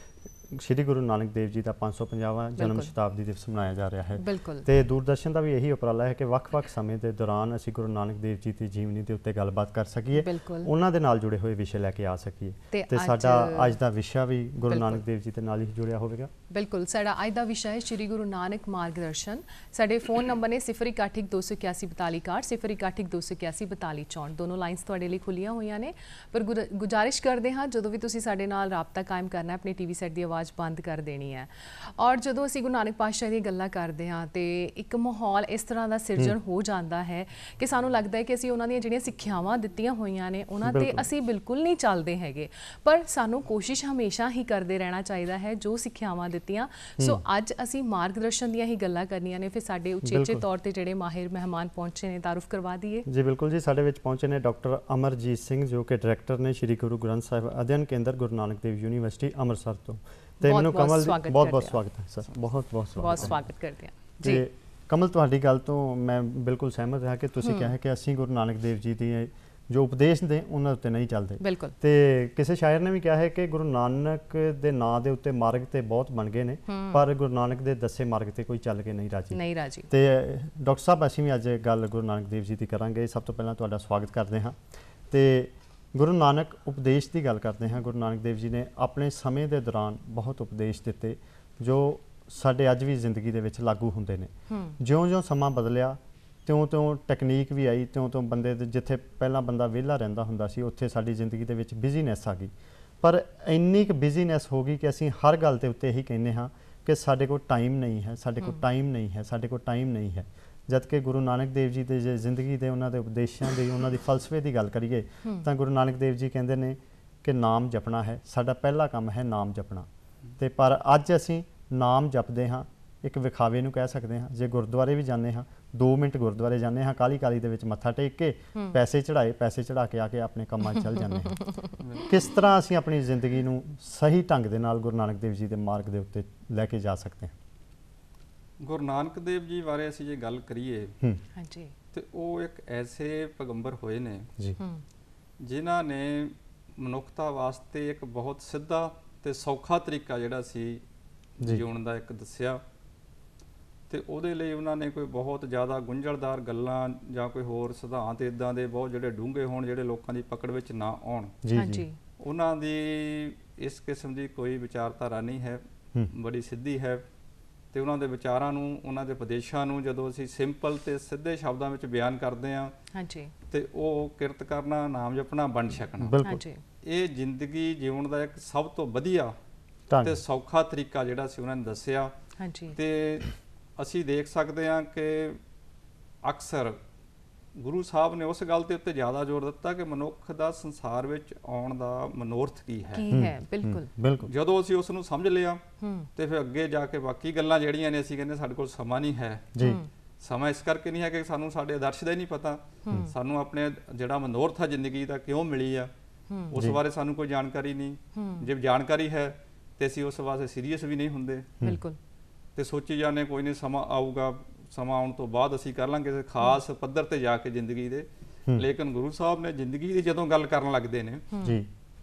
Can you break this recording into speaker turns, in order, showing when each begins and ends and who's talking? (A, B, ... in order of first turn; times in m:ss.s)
0:00.5-0:16.3 A
0:02.6-0:02.9 B
0:04.2-0:04.7 B
0:10.1-0:10.7 B
0:12.7-0:13.8 B
0:14.7-0:15.0 B
0:16.5-0:53.1 B
0:40.6-0:41.0 A
0:50.0-0:50.4 A
0:53.1-1:03.5 A
1:00.4-1:01.8 B
1:03.0-1:04.4 B
1:04.2-1:24.6 A
1:07.4-1:07.7 B
1:11.4-1:11.7 B
1:16.7-1:17.0 B
1:19.3-1:19.9 B
1:25.1-1:59.9 A
1:34.5-1:34.8 B
2:00.4-2:11.5 A
2:10.7-2:11.7 B
2:11.8-2:12.1 C
2:12.1-2:17.3 A
2:18.6-2:21.0 C
2:21.4-2:21.7 B
2:21.9-2:24.3 C
2:24.6-2:24.8 B
2:25.4-2:30.8 C
2:31.4-2:32.6 C
2:33.9-2:41.4 C
2:41.4-2:41.8 A
2:41.5-2:42.0 B
2:42.2-2:47.0 C
2:47.7-2:52.7 C
2:52.9-2:53.3 B
2:53.5-2:56.2 C
2:56.0-2:56.4 A
2:56.2-2:56.6 B
2:56.8-2:59.3 C
2:59.9-3:00.2 A
3:00.0-3:02.1 C
3:02.4-3:02.8 B
3:02.7-3:05.4 C
3:06.2-3:06.8 C
3:07.6-3:13.0 C
3:12.9-3:13.9 B
3:13.1-3:14.3 A
3:14.2-3:15.6 C
3:15.8-3:16.1 B
3:16.1-3:19.5 C
3:19.5-3:19.8 A
3:19.6-3:19.9 B
3:20.2-3:25.9 C
3:22.8-3:23.1 B
3:26.3-3:26.6 B
3:26.5-3:31.5 C
3:28.1-3:28.5 B
3:31.6-3:32.0 B
3:32.6-3:41.3 C
3:41.3-3:41.6 B